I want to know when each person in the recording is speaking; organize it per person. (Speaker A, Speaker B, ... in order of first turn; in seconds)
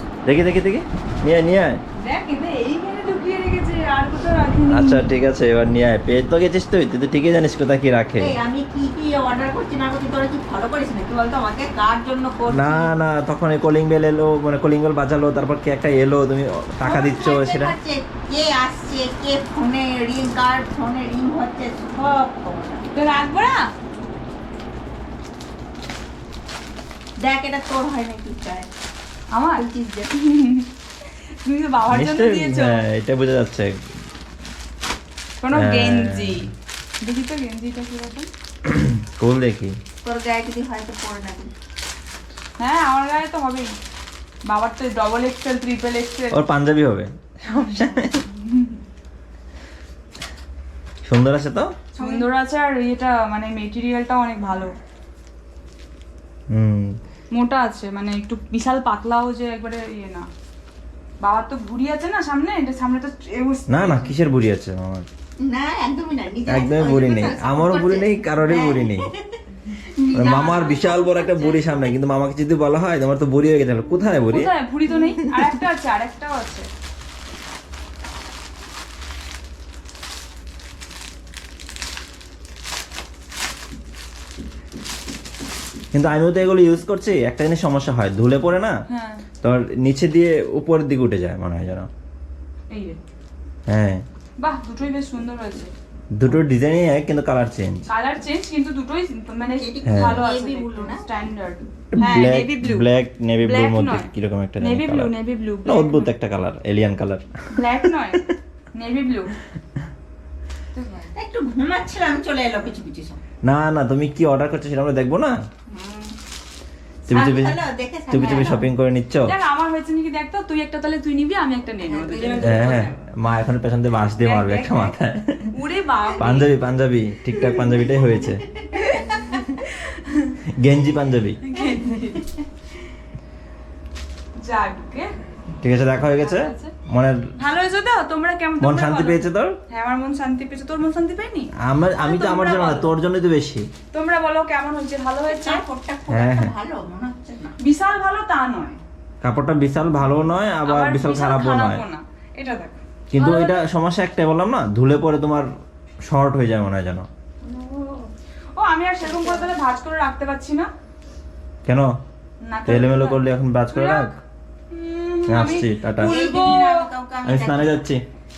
Speaker A: 0.2-1.8, 4.7-8.3, 12.5-17.8, 31.9-33.9, 35.5-36.5, 38.6-39.8, 46.3-48.3, 51.0-51.8, 56.5-57.0, 63.7-65.1, 66.5-69.1, 70.1-74.5, 85.9-88.8, 89.4-91.9, 93.7-94.0, 96.1-97.8, 99.8-100.2, 101.9-105.1, 105.6-108.3, 113.4-115.4, 117.1-119.3, 122.4-125.5, 126.2-128.4, 129.3-129.6, 130.5-131.4, 135.6-137.3, 138.6-139.6, 141.6-143.7, 146.1-146.5, 149.2-151.8, 153.1-155.5, 156.1-157.1, 161.7-162.0, 162.7-164.1, 165.3-166.2, 167.2-168.0
Speaker B: 2.0-5.0, 22.9-23.7, 29.3-32.8, 35.4-38.3, 42.6-43.8, 44.5-46.4, 47.5-48.8, 52.0-54.8, 57.3-60.3, 61.2-64.1, 74.3-76.7, 88.9-89.2, 92.7-93.0, 94.4-95.7, 97.9-102.9, 103.4-104.1, 104.6-106.1, 107.5-109.3, 110.7-111.1, 119.2-122.9, 124.2-124.9, 125.5-126.5, 128.7-130.4, 131.4-132.3, 134.3-135.1, 136.2-136.7, 137.4-142.9, 143.9-145.6, 147.6-148.8, 150.7-153.6, 157.4-160.7, 162.4-164.1, 164.7-166.9
Speaker C: 8.2-12.9, 16.9-22.9, 27.2-28.7, 29.6-30.1, 40.0-41.5, 52.0-52.3, 65.4-69.4, 69.9-71.9, 99.6-101.1, 102.0-102.4, 111.1-113.2, 115.7-116.1, 117.1-118.7, 121.8-123.0, 127.5-129.4, 145.3-147.6, 159.1-159.5, 166.0-167.8